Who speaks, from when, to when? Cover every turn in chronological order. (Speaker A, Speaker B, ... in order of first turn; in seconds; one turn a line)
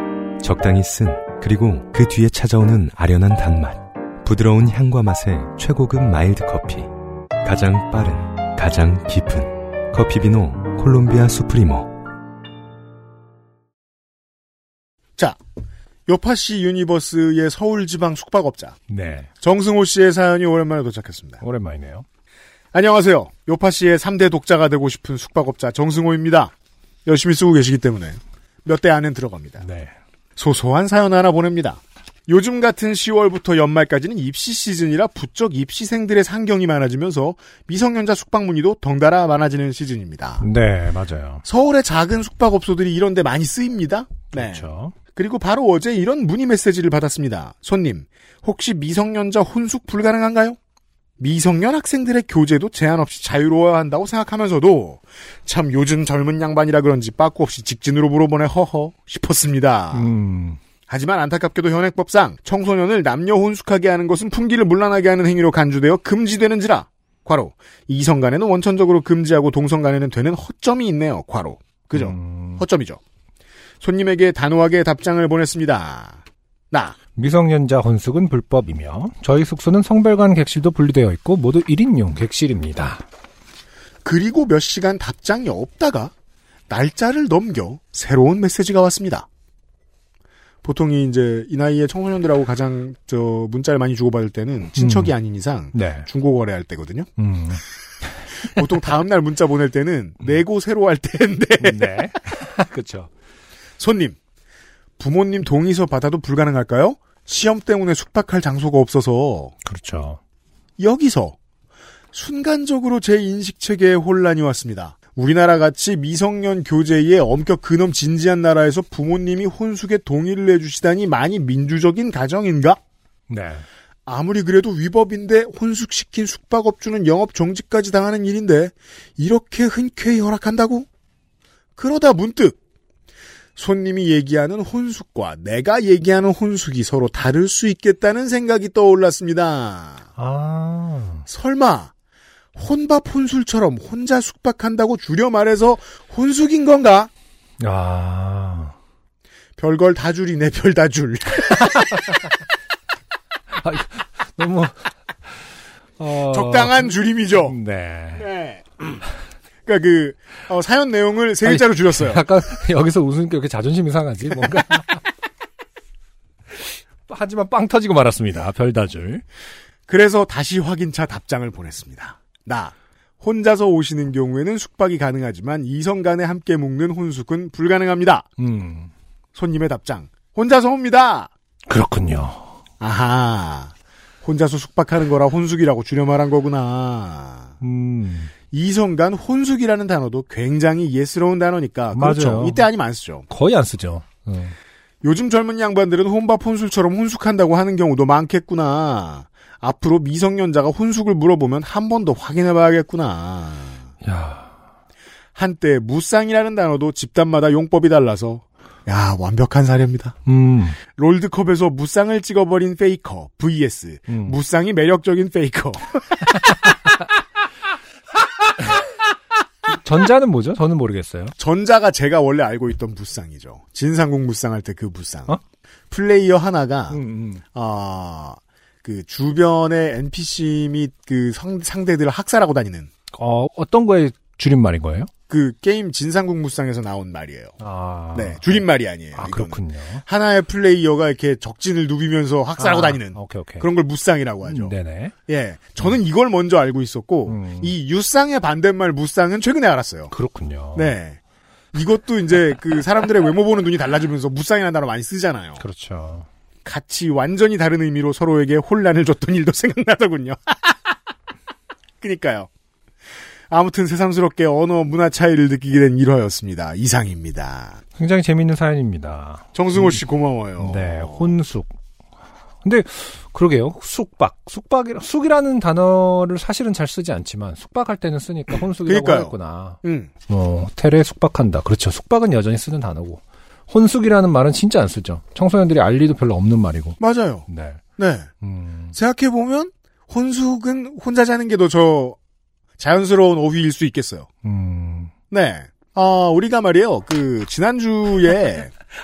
Speaker A: 0.4-6.9
Speaker A: 7.4-11.9
Speaker B: 16.1-18.8
Speaker C: 18.9-19.3
Speaker B: 19.4-21.4
Speaker C: 21.4-22.0
Speaker B: 22.7-26.5
Speaker B: 27.0-29.6
Speaker C: 29.6-29.9
Speaker B: 30.4-40.4
Speaker C: 40.4-41.4
Speaker B: 41.4-50.6
Speaker C: 44.3-44.9
Speaker B: 51.2-60.1
Speaker C: 59.9-60.6
Speaker B: 60.9-73.0
Speaker C: 71.9-72.6
Speaker B: 73.8-76.2
Speaker B: 76.7-77.0
Speaker C: 77.2-83.0
Speaker B: 84.0-86.1
Speaker B: 86.7-89.3
Speaker B: 90.6-97.1
Speaker C: 94.8-95.1
Speaker C: 95.7-96.1
Speaker C: 97.2-98.6
Speaker B: 98.5-102.1
Speaker C: 101.6-103.1
Speaker B: 103.8-104.2
Speaker B: 105.0-109.5
Speaker C: 109.6-110.2
Speaker B: 110.8-111.4
Speaker B: 112.1-122.8
Speaker C: 123.3-123.6
Speaker B: 124.0-130.9
Speaker B: 131.8-132.6
Speaker B: 133.6-140.0
Speaker C: 140.2-141.2
Speaker B: 141.3-141.9
Speaker B: 142.5-147.1
Speaker C: 147.6-148.7
Speaker B: 149.6-151.9
Speaker C: 151.6-152.1
Speaker C: 153.5-154.9
Speaker C: 156.0-156.9
Speaker B: 156.3-157.6
Speaker C: 157.4-158.3
Speaker B: 158.2-159.0
Speaker B: 159.7-162.2
Speaker C: 161.4-165.0
Speaker C: 167.1-169.2
Speaker B: 169.9-178.3
Speaker C: 178.4-178.9
Speaker B: 179.3-181.3
Speaker C: 181.7-182.5
Speaker B: 182.8-187.5
Speaker C: 187.6-188.3
Speaker B: 188.5-193.2
Speaker C: 191.9-192.7
Speaker C: 193.3-194.5
Speaker B: 195.0-203.9
Speaker C: 204.0-204.6
Speaker B: 205.3-210.2
Speaker C: 210.2-210.8
Speaker B: 210.9-216.4
Speaker C: 214.1-214.4
Speaker C: 219.7-221.3
Speaker B: 221.4-225.4
Speaker B: 225.9-227.0
Speaker C: 226.9-227.4
Speaker B: 227.5-232.9
Speaker C: 233.1-235.1
Speaker B: 235.3-237.6
Speaker C: 237.6-238.6
Speaker B: 238.1-244.8
Speaker C: 239.1-240.0
Speaker C: 242.6-243.7
Speaker C: 244.4-245.1
Speaker B: 245.3-250.1
Speaker C: 247.3-247.7
Speaker C: 250.1-250.9
Speaker B: 250.7-251.2
Speaker B: 251.7-255.6
Speaker C: 255.6-256.3
Speaker B: 256.6-260.8
Speaker B: 262.0-262.5
Speaker B: 263.5-267.8
Speaker C: 268.0-270.0
Speaker B: 269.5-271.3
Speaker C: 270.6-271.7
Speaker C: 272.6-287.8
Speaker B: 278.8-280.1
Speaker B: 287.0-288.3
Speaker C: 288.4-288.9
Speaker B: 288.9-292.2
Speaker B: 292.8-294.3
Speaker C: 294.4-295.1
Speaker B: 295.3-298.7